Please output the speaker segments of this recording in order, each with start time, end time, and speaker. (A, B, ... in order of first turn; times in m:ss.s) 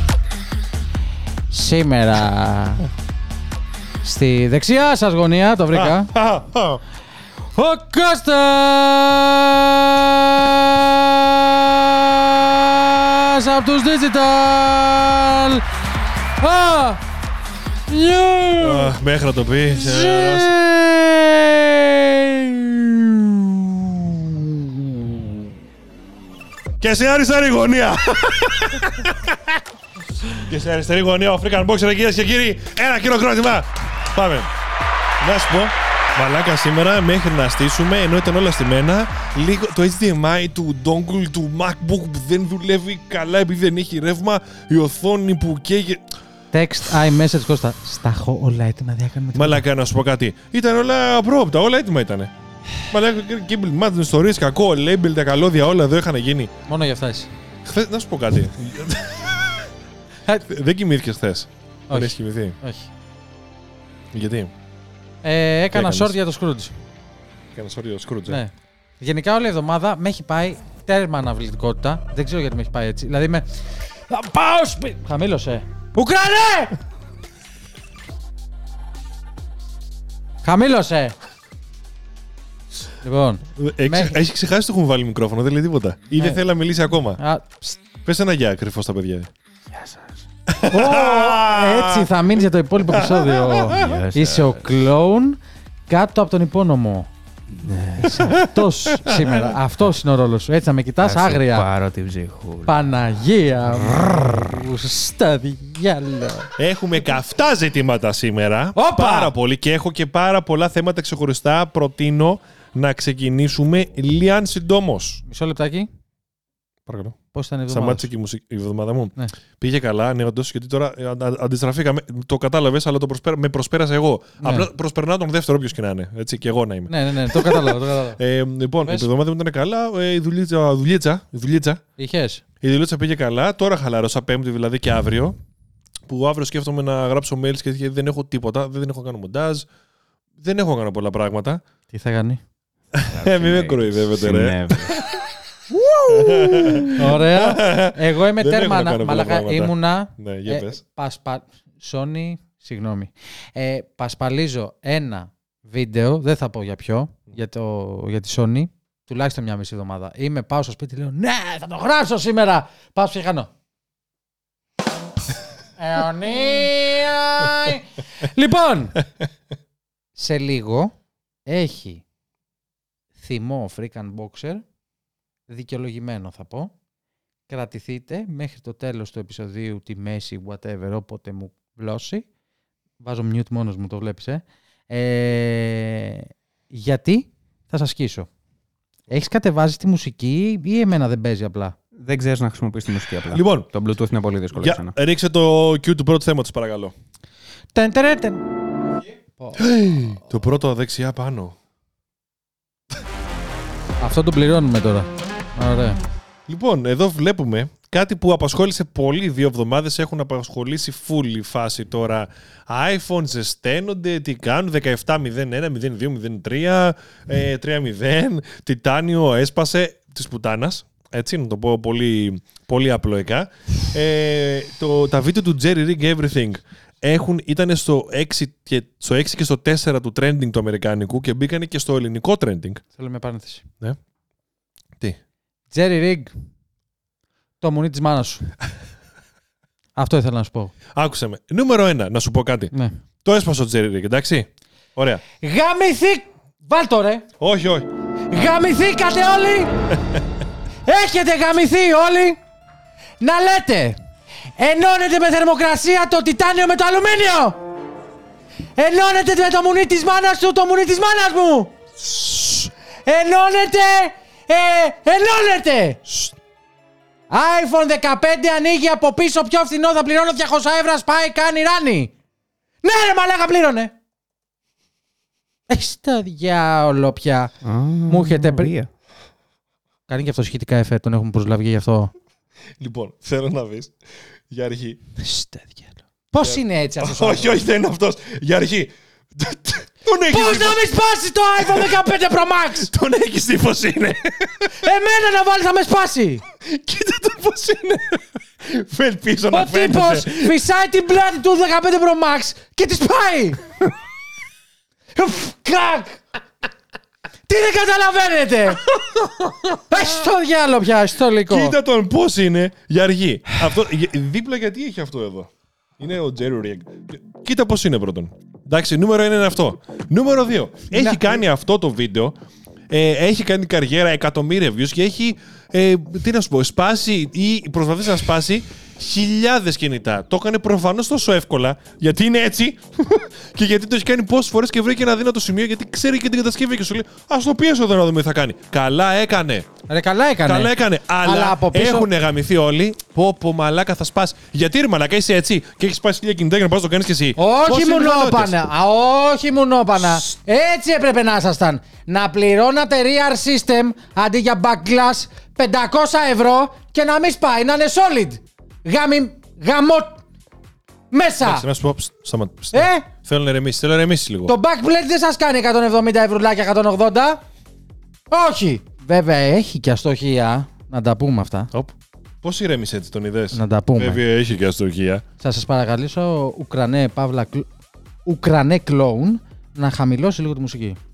0:01.5-0:02.9 A
0:04.0-0:06.1 A
0:05.7-0:06.8 B
0:07.5-0:15.6 A
0:16.4-0:17.0 A
0:17.9-0:18.9 A
0:18.6-0:20.5 B
0:19.7-0:25.4 A
0:26.8-0:29.6 B
0:30.3-0:34.5 B
0:35.2-0:46.0 B
0:46.5-0:49.6 A
0:49.3-0:52.3 B
0:52.9-0:56.5 B
0:56.7-0:57.3 A
0:57.6-0:59.7 B
1:00.4-1:02.6 B
1:01.9-1:02.9 A
1:04.1-1:04.5 B
1:05.2-1:06.7 A
1:05.7-1:06.2 B
1:07.5-1:08.4 B
1:08.3-1:13.5 A
1:14.1-1:16.8 A
1:20.4-1:21.1 A
1:23.0-1:24.2 A
1:23.6-1:27.2 B
1:26.2-1:26.4 A
1:27.2-1:27.8 A
1:28.0-1:29.3 B
1:29.7-1:30.2 C
1:30.5-1:34.0 B
1:30.7-1:37.1 A
1:33.7-1:34.7 C
1:37.6-1:38.4 C
1:38.0-1:41.7 A
1:38.2-1:39.6 B
1:41.0-1:42.8 C
1:42.6-1:46.5 A
1:43.8-1:44.6 C
1:46.6-1:55.2 B
1:48.8-1:49.3 A
1:55.2-1:55.9 A
1:56.8-1:57.2 B
1:57.3-1:58.1 A
1:57.7-2:11.8 B
2:04.4-2:04.7 A
2:06.9-2:08.2 A
2:12.0-2:12.4 A
2:12.6-2:15.4 B
2:16.1-2:19.7 B
2:20.4-2:21.6 B
2:21.9-2:22.4 A
2:22.9-2:25.2 B
2:23.1-2:25.0 C
2:25.7-2:26.9 C
2:26.1-2:30.8 B
2:26.9-2:43.5 A
2:45.8-2:49.0 A
2:50.2-2:50.9 A
2:51.4-2:52.0 A
2:53.2-2:54.6 A
2:55.5-2:56.7 A
2:57.5-3:02.3 A
3:03.0-3:08.3 A
3:09.1-3:11.7 A
3:12.0-3:14.9 C
3:13.3-3:13.7 B
3:14.5-3:16.9 B
3:17.7-3:18.4 A
3:19.6-3:21.6 B
3:24.0-3:26.0 A
3:26.5-3:52.8 B
3:53.0-3:53.6 A
3:55.7-3:56.3 A
3:57.6-3:58.4 A
4:00.0-4:00.7 A
4:00.9-4:02.7 B
4:03.2-4:05.2 B
4:05.4-4:07.2 A
4:07.4-4:07.9 B
4:08.3-4:09.7 A
4:10.8-4:12.4 A
4:13.2-4:14.0 A
4:14.6-4:17.6 A
4:18.8-4:26.0 A
4:27.3-4:32.1 A
4:32.8-4:33.9 A
4:35.7-4:37.5 A
4:37.6-4:38.9 C
4:38.1-4:38.8 A
4:40.1-4:42.1 A
4:42.8-4:44.0 B
4:44.5-4:45.0 B
4:45.2-4:47.6 A
4:46.4-4:50.9 B
4:50.3-4:52.9 A
4:51.6-4:52.1 B
4:52.7-4:54.8 B
4:54.7-4:56.4 A
4:56.6-5:00.6 B
4:59.5-5:03.6 A
5:05.1-5:06.2 A
5:07.5-5:08.9 A
5:08.8-5:09.7 B
5:09.8-5:11.7 A
5:11.5-5:22.3 B
5:20.9-5:21.4 A
5:22.9-5:39.7 B
5:39.9-5:40.7 A
5:40.4-5:48.6 B
5:41.2-5:42.1 A
5:47.4-6:00.2 A
6:01.1-6:01.6 A
6:01.4-6:04.5 B
6:02.7-6:03.1 A
6:04.4-6:07.4 A
6:08.3-6:11.7 A
6:11.7-6:15.2 B
6:13.5-6:14.2 A
6:15.4-6:17.7 A
6:18.2-6:21.0 A